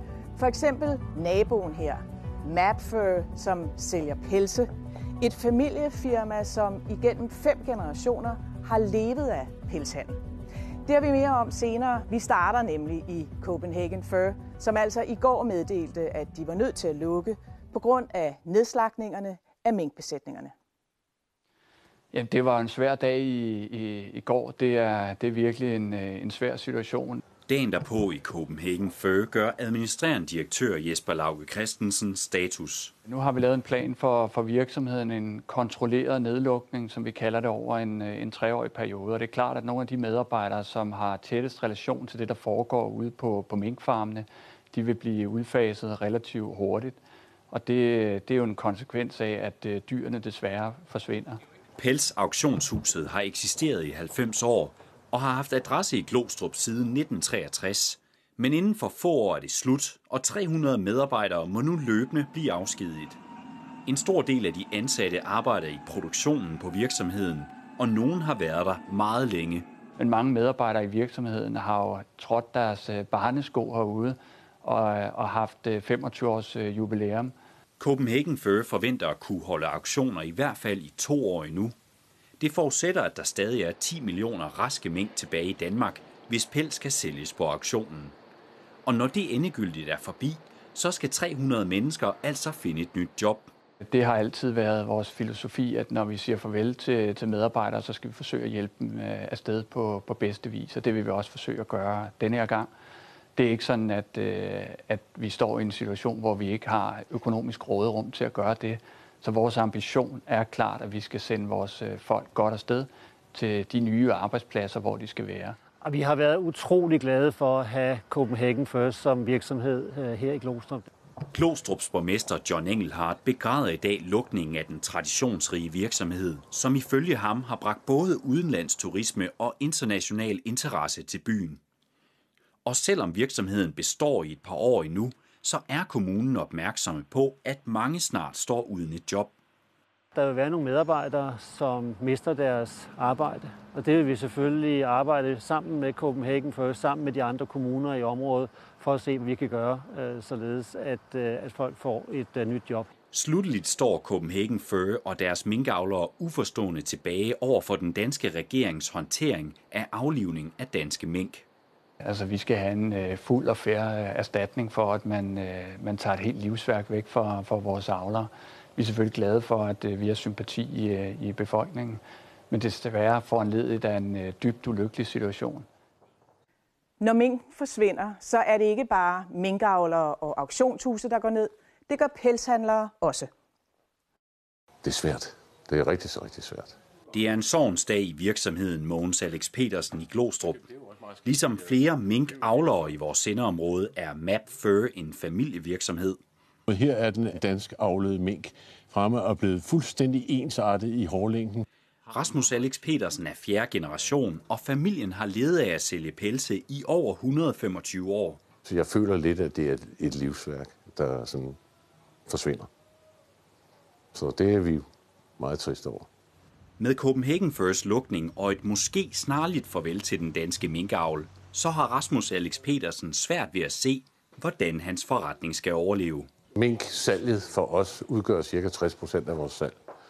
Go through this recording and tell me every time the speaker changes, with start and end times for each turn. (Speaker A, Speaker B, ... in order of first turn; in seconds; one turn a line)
Speaker A: 0.3-10.2
Speaker A: 10.9-20.5
Speaker B: 22.1-27.2
Speaker C: 27.5-32.9
Speaker B: 33.1-47.0
Speaker B: 47.5-51.4
Speaker C: 51.8-63.2
Speaker C: 63.9-69.7
Speaker B: 70.0-77.3
Speaker C: 77.8-81.8
Speaker C: 82.4-88.2
Speaker C: 88.9-93.5
Speaker B: 93.8-102.7
Speaker B: 103.4-115.6
Speaker D: 115.8-120.9
Speaker C: 121.3-131.6
Speaker C: 132.7-139.3
Speaker D: 140.1-152.9
Speaker C: 153.1-161.5
Speaker B: 162.0-175.7
Speaker A: 177.0-183.3
Speaker E: 184.8-186.8
Speaker C: 187.1-190.7
Speaker C: 191.2-196.2
Speaker E: 196.7-201.7
Speaker C: 202.1-208.4
Speaker E: 208.6-211.6
Speaker E: 212.3-212.7
Speaker E: 214.1-214.9
Speaker E: 215.4-216.1
Speaker C: 216.8-226.3
Speaker E: 226.5-229.8